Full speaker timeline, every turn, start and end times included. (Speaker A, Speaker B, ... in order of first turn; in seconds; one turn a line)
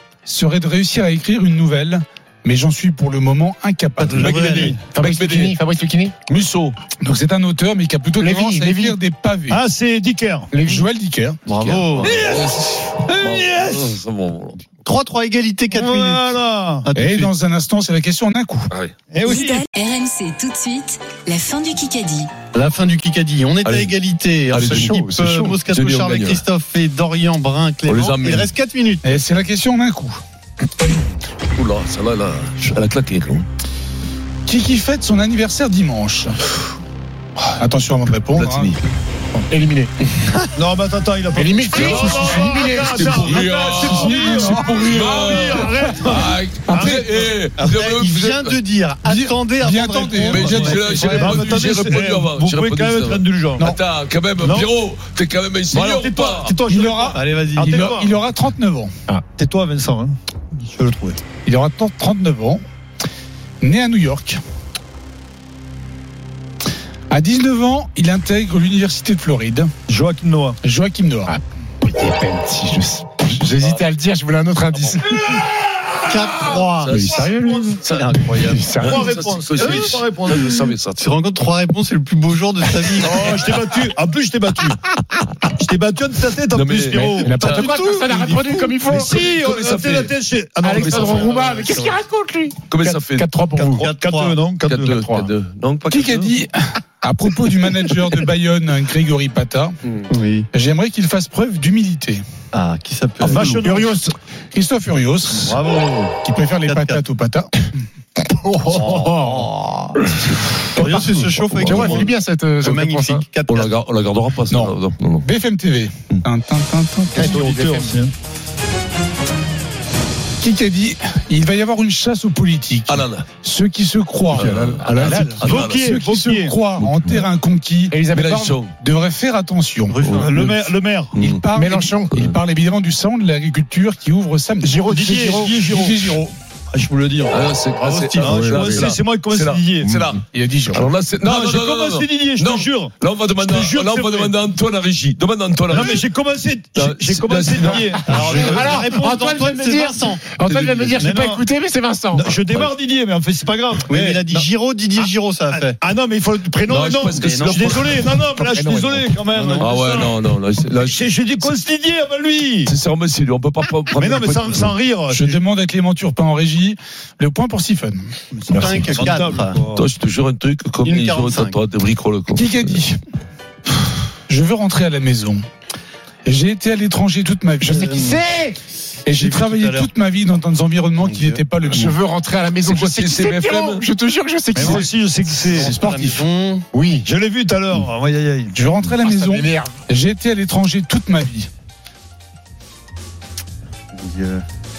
Speaker A: 0.2-4.7
Speaker B: 4.0-5.5
Speaker C: 4.1-4.8
Speaker D: 4.2-4.7
Speaker E: 4.9-6.1
Speaker B: 6.3-6.8
Speaker A: 7.0-9.6
Speaker E: 8.2-8.9
Speaker C: 9.5-10.5
Speaker E: 10.5-10.9
Speaker A: 10.6-11.8
Speaker D: 11.5-12.2
Speaker B: 11.6-14.6
Speaker C: 12.0-14.0
Speaker D: 14.8-17.3
Speaker C: 15.7-16.8
Speaker A: 16.9-18.7
Speaker C: 19.1-19.7
Speaker F: 19.2-22.3
Speaker D: 22.5-29.2
Speaker B: 23.6-23.9
Speaker B: 24.5-24.9
Speaker E: 24.6-25.5
Speaker B: 25.6-26.4
Speaker B: 27.9-28.5
Speaker A: 29.0-30.2
Speaker B: 31.6-33.5
Speaker A: 34.5-36.4
Speaker A: 37.6-38.8
Speaker B: 38.3-38.8
Speaker E: 39.5-39.9
Speaker C: 40.5-47.3
Speaker E: 41.3-43.2
Speaker B: 42.9-48.6
Speaker A: 43.3-45.5
Speaker D: 47.6-51.5
Speaker A: 49.0-50.9
Speaker B: 50.3-56.5
Speaker C: 50.8-53.7
Speaker C: 54.4-54.7
Speaker C: 55.7-58.2
Speaker A: 56.7-58.9
Speaker D: 57.1-57.9
Speaker C: 59.4-61.2
Speaker A: 61.4-62.6
Speaker A: 63.6-64.4
Speaker A: 67.1-69.7
Speaker C: 69.9-70.6
Speaker A: 70.6-71.3
Speaker E: 71.2-75.3
Speaker D: 76.0-77.1
Speaker B: 76.8-77.2
Speaker E: 77.0-77.8
Speaker C: 77.2-77.7
Speaker D: 77.8-78.8
Speaker B: 77.8-78.1
Speaker E: 78.4-79.0
Speaker B: 78.7-81.0
Speaker C: 78.8-80.5
Speaker D: 81.0-83.3
Speaker C: 83.0-84.8
Speaker C: 85.6-87.6
Speaker B: 86.5-88.6
Speaker E: 86.9-89.3
Speaker C: 88.8-91.9
Speaker B: 89.2-90.1
Speaker E: 90.6-93.9
Speaker B: 90.8-91.2
Speaker B: 92.7-93.3
Speaker C: 93.5-95.0
Speaker D: 93.8-94.4
Speaker B: 94.6-96.3
Speaker E: 94.8-95.3
Speaker A: 95.9-99.8
Speaker D: 100.1-100.5
Speaker A: 100.5-102.2
Speaker D: 102.5-103.7
Speaker C: 103.2-104.0
Speaker E: 103.6-104.1
Speaker A: 104.5-105.6
Speaker D: 105.4-107.0
Speaker A: 106.2-107.5
Speaker E: 108.3-109.5
Speaker D: 108.7-110.1
Speaker D: 110.7-113.7
Speaker C: 110.8-111.3
Speaker B: 111.5-112.1
Speaker E: 111.6-113.2
Speaker B: 113.5-115.3
Speaker A: 114.5-117.3
Speaker C: 117.1-118.1
Speaker E: 117.2-118.0
Speaker A: 120.4-128.0
Speaker B: 122.9-123.2
Speaker E: 124.4-125.3
Speaker B: 124.4-125.8
Speaker C: 125.4-126.5
Speaker B: 126.8-127.2
Speaker E: 127.9-128.6
Speaker B: 128.1-128.7
Speaker A: 128.8-134.8
Speaker D: 129.9-130.2
Speaker B: 130.0-130.5
Speaker C: 130.1-131.1
Speaker B: 131.1-131.4
Speaker E: 131.5-132.1
Speaker E: 134.6-135.5
Speaker C: 134.8-136.1
Speaker A: 135.6-136.3
Speaker C: 136.7-137.4
Speaker B: 137.3-146.0
Speaker C: 138.1-140.0
Speaker E: 138.2-138.9
Speaker A: 140.3-140.9
Speaker C: 141.2-144.3
Speaker C: 145.7-148.4
Speaker B: 146.8-147.9
Speaker E: 147.6-152.3
Speaker D: 148.0-150.2
Speaker B: 150.4-151.0
Speaker C: 150.9-151.5
Speaker C: 152.1-154.5
Speaker D: 153.9-155.8
Speaker C: 155.8-160.2
Speaker B: 156.7-158.1
Speaker D: 157.1-157.8
Speaker E: 158.4-159.2
Speaker D: 159.3-159.8
Speaker B: 159.6-161.1
Speaker C: 160.8-162.7
Speaker B: 162.7-164.7
Speaker C: 163.9-165.4
Speaker A: 165.1-168.1
Speaker C: 168.3-169.8
Speaker B: 168.5-169.1
Speaker D: 168.5-169.6
Speaker B: 169.7-172.8
Speaker D: 170.8-171.6
Speaker A: 172.3-173.0
Speaker A: 174.3-175.4
Speaker A: 176.2-177.9
Speaker E: 177.6-178.6
Speaker D: 177.8-178.2
Speaker A: 179.0-181.9
Speaker D: 179.1-179.9
Speaker D: 181.0-181.4
Speaker E: 181.7-184.8
Speaker B: 182.6-183.8
Speaker C: 184.5-185.7
Speaker D: 185.3-186.7
Speaker A: 185.4-186.2
Speaker E: 186.7-187.1
Speaker C: 187.0-188.5
Speaker A: 188.5-191.5
Speaker E: 188.9-189.8
Speaker D: 193.9-194.4